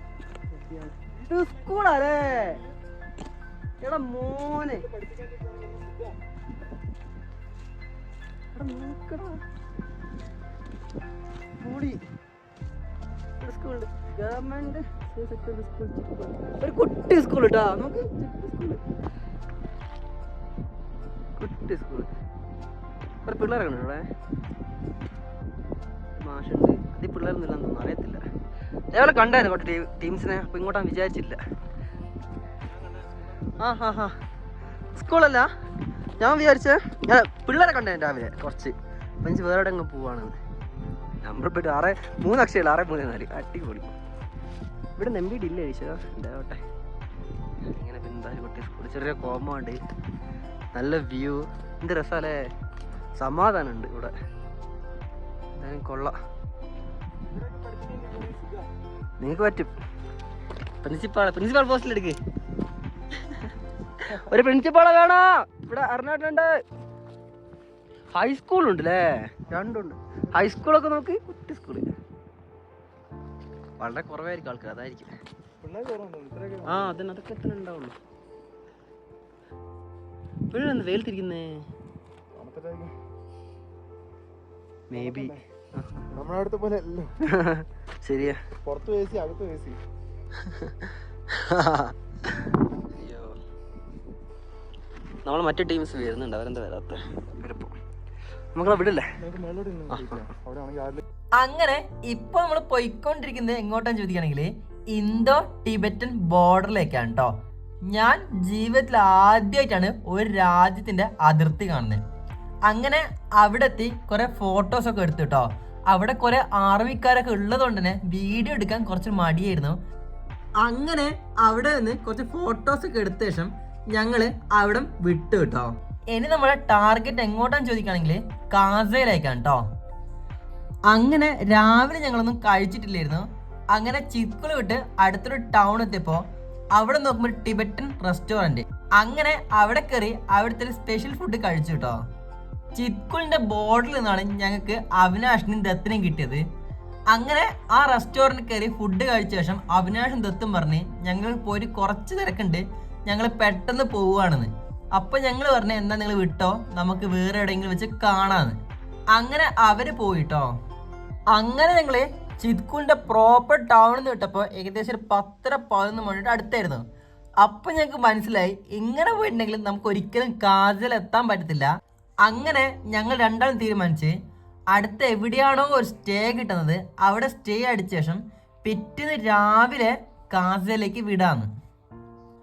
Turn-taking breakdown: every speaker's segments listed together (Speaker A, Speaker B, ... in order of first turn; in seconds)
Speaker A: 0.5-2.6, 3.8-4.9, 8.5-9.4, 11.6-12.0, 13.4-18.8, 21.4-22.1, 23.2-24.1, 26.2-28.2, 28.9-31.4, 33.4-34.1, 35.0-35.5, 36.2-40.4, 41.2-43.9, 45.0-46.6, 47.7-49.8, 50.7-52.4, 53.2-54.1, 55.6-56.2, 59.2-59.7, 60.8-62.2, 64.0-66.5, 68.1-71.9, 73.8-75.1, 76.7-78.0, 80.5-81.5, 84.9-86.1, 87.2-88.4, 90.4-93.3, 95.2-97.7, 98.5-99.1, 99.9-100.3
Speaker B: 5.2-5.8, 57.5-58.6, 75.6-77.0, 82.3-83.0, 84.9-85.4, 86.1-87.2, 88.7-89.8, 99.2-101.0
Speaker C: 101.4-107.3, 107.9-112.0, 112.7-119.8, 120.6-129.6, 130.9-136.2, 136.8-142.0, 142.7-146.4, 147.1-158.6, 159.2-160.5, 161.3-166.8, 167.4-171.7, 172.2-174.2, 174.7-181.5